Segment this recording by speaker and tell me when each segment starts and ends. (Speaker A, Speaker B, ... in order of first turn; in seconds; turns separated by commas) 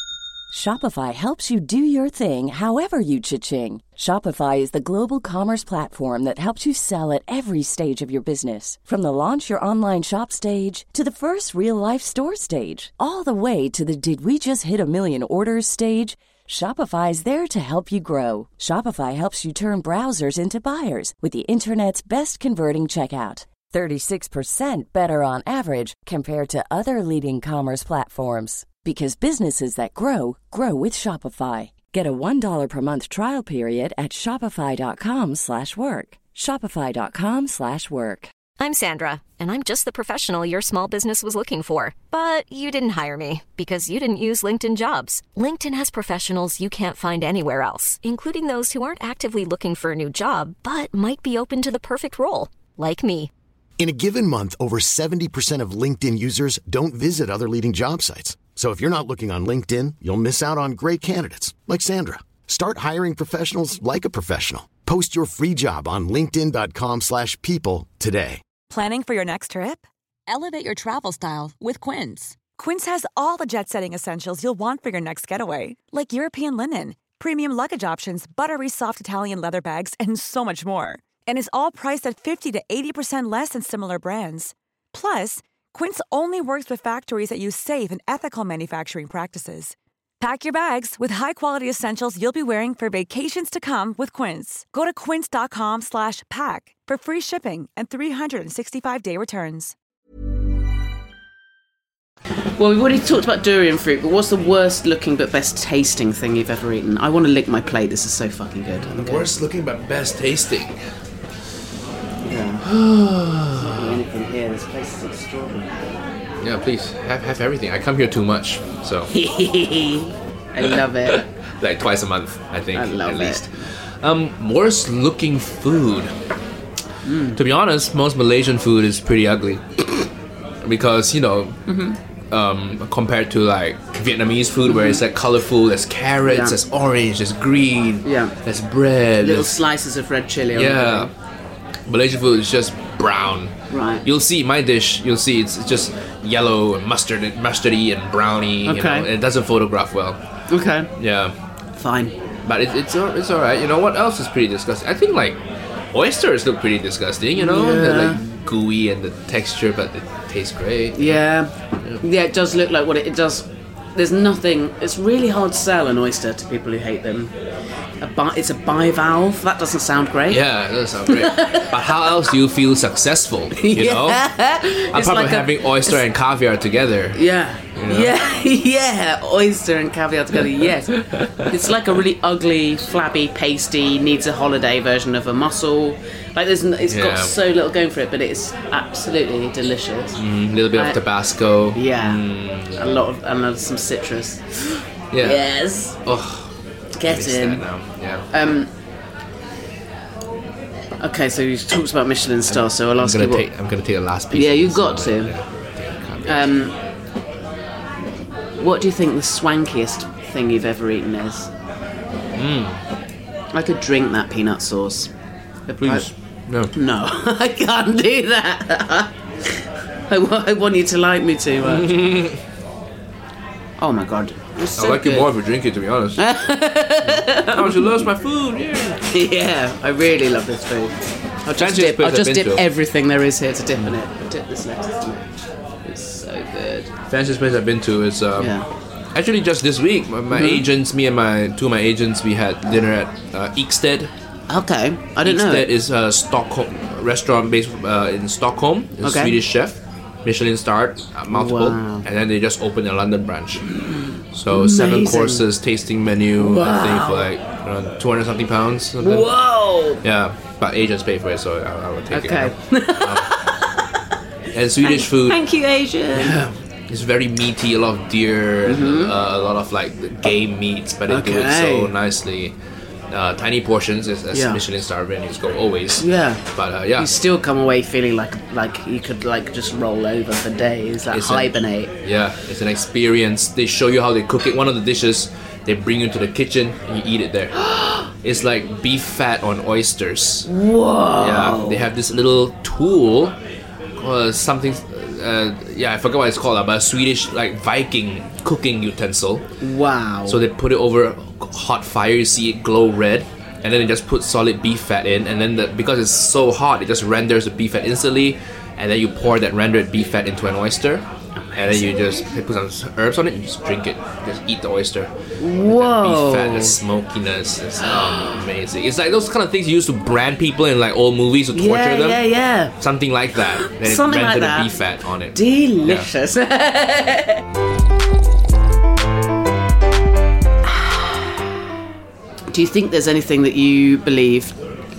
Speaker A: 0.5-38.3, Speaker B: 38.6-53.3, Speaker C: 53.8-68.4, Speaker D: 68.7-99.7, Speaker E: 102.6-109.3, Speaker F: 108.8-110.8, Speaker E: 112.2-112.7, Speaker F: 112.6-114.0, Speaker E: 113.6-116.0, Speaker F: 116.4-119.1, Speaker E: 119.1-121.2, Speaker F: 120.7-126.1, Speaker E: 122.7-123.4, Speaker E: 127.0-127.4, Speaker F: 127.4-130.1, Speaker F: 130.6-131.6, Speaker E: 131.7-132.0, Speaker F: 132.3-139.6, Speaker E: 134.7-135.0, Speaker E: 136.3-136.6, Speaker E: 138.0-138.3, Speaker E: 139.2-141.1, Speaker F: 140.6-141.1, Speaker F: 141.9-150.2, Speaker E: 143.7-144.0, Speaker E: 148.7-149.1, Speaker E: 150.5-150.9, Speaker F: 151.0-151.3, Speaker E: 151.8-152.2, Speaker F: 152.4-155.4, Speaker F: 155.9-161.2, Speaker E: 157.4-158.2, Speaker E: 160.9-167.3, Speaker E: 168.0-170.4, Speaker F: 170.3-174.3, Speaker E: 171.1-172.0, Speaker E: 173.6-176.0, Speaker F: 174.9-177.2, Speaker E: 177.1-190.2, Speaker F: 177.8-178.1, Speaker F: 186.9-187.3, Speaker F: 190.2-193.1, Speaker E: 190.7-191.0, Speaker E: 191.7-196.0, Speaker F: 195.1-195.4, Speaker F: 196.1-196.5, Speaker E: 197.0-197.6, Speaker F: 197.1-198.2, Speaker E: 198.3-198.7, Speaker E: 201.0-203.5, Speaker F: 202.5-206.5, Speaker E: 204.3-205.3, Speaker E: 206.3-206.7, Speaker E: 208.6-211.5, Speaker F: 212.3-212.8, Speaker E: 213.5-215.1, Speaker E: 215.7-216.1, Speaker F: 215.8-216.7, Speaker E: 216.7-219.1, Speaker E: 220.1-221.9, Speaker F: 221.6-222.4, Speaker E: 223.8-225.3, Speaker F: 224.8-226.2, Speaker E: 226.2-228.0, Speaker F: 227.0-229.1, Speaker E: 229.1-230.9, Speaker E: 231.5-235.3, Speaker F: 231.6-232.6, Speaker E: 235.8-236.9, Speaker F: 237.1-238.5, Speaker E: 238.4-238.7, Speaker F: 239.1-244.1, Speaker E: 240.3-240.7, Speaker E: 244.5-245.7, Speaker F: 245.2-253.7, Speaker E: 249.0-249.4, Speaker E: 251.3-252.0, Speaker E: 253.8-255.4, Speaker F: 254.3-259.3, Speaker E: 256.4-257.3, Speaker E: 259.0-260.0, Speaker F: 260.0-263.3, Speaker E: 262.1-263.7, Speaker F: 264.5-265.4, Speaker E: 264.8-266.4, Speaker F: 266.1-272.6, Speaker E: 268.7-269.1, Speaker E: 271.1-271.9, Speaker F: 273.1-277.1, Speaker E: 274.3-274.6, Speaker E: 276.0-276.4, Speaker E: 277.0-281.9, Speaker F: 281.1-290.5, Speaker E: 290.4-291.9, Speaker F: 291.2-293.4, Speaker F: 294.0-299.5, Speaker E: 299.6-300.4, Speaker F: 300.3-315.1, Speaker E: 311.4-311.9, Speaker E: 315.4-316.8, Speaker F: 315.6-322.2, Speaker E: 317.9-318.4, Speaker E: 321.5-322.8, Speaker F: 322.8-326.1, Speaker E: 323.4-324.7, Speaker E: 325.3-327.4, Speaker E: 332.5-334.6